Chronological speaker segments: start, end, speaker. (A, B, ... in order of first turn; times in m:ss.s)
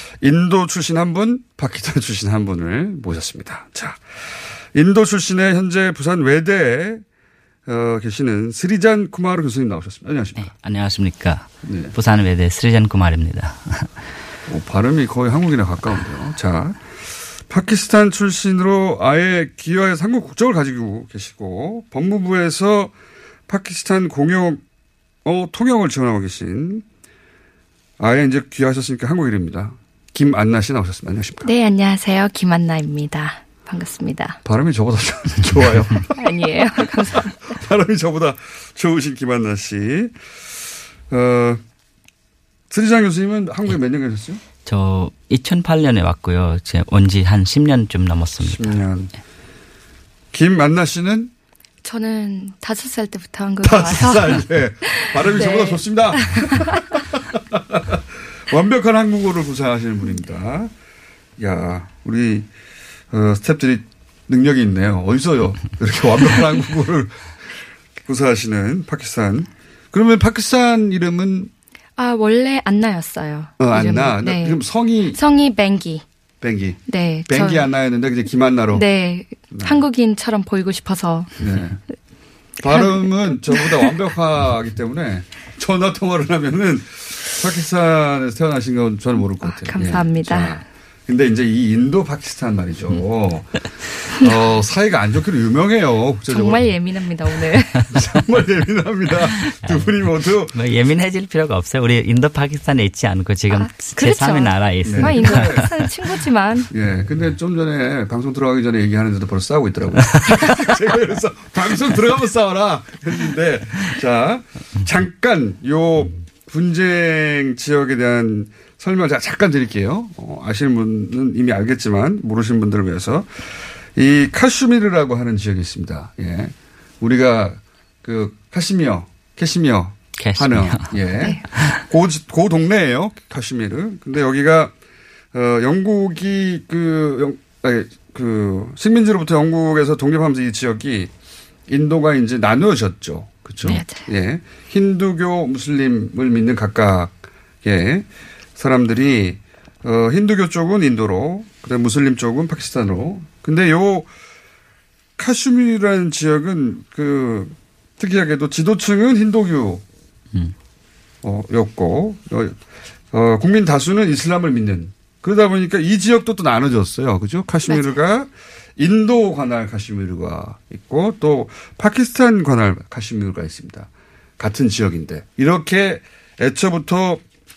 0:00.2-0:04.0 A
0:04.7-0:07.0 A
0:07.6-0:10.5 A
0:10.4-0:13.9 B
0:11.6-0:11.9 A
0:14.5-0:16.9 A
0:17.4-0:22.9 A
0:23.5-0:24.6 A
0:25.2-0:26.8 A
0:28.0-0:31.5 A
0:31.4-0:34.4 C
0:34.4-0:36.1 A
0:36.1-0:37.3 C
0:37.0-0:40.1 A
0:41.1-0:41.6 A
0:42.7-0:44.4 A
0:44.6-0:48.8 B
0:48.4-0:49.1 A
0:50.3-0:51.3 A
0:51.8-0:56.8 C
0:53.6-1:00.7 A
1:01.4-1:02.5 A
1:03.1-1:07.3 A
1:08.0-1:11.5 A
1:12.0-1:14.6 C
1:13.6-1:15.2 A
1:15.1-1:16.0 C
1:16.4-1:18.9 A
1:16.9-1:17.7 C
1:18.7-1:21.5 C
1:19.5-1:19.8 A
1:21.4-1:21.8 A
1:22.6-1:36.7 A
1:22.6-1:23.9 C
1:29.4-1:30.6 C
1:36.3-1:38.2 C
1:37.9-1:40.5 A
1:39.4-1:39.9 B
1:40.5-1:45.8 B
1:43.5-1:46.7 C
1:44.8-1:45.7 A
1:46.7-2:03.4 A
2:03.9-2:14.7 A
2:10.2-2:11.8 B
2:15.3-2:21.1 A
2:21.7-2:28.0 A
2:23.6-2:24.0 C
2:28.6-2:34.1 A
2:35.2-2:39.8 A
2:41.2-2:42.6 A
2:43.1-2:57.2 A
2:47.7-2:47.9 C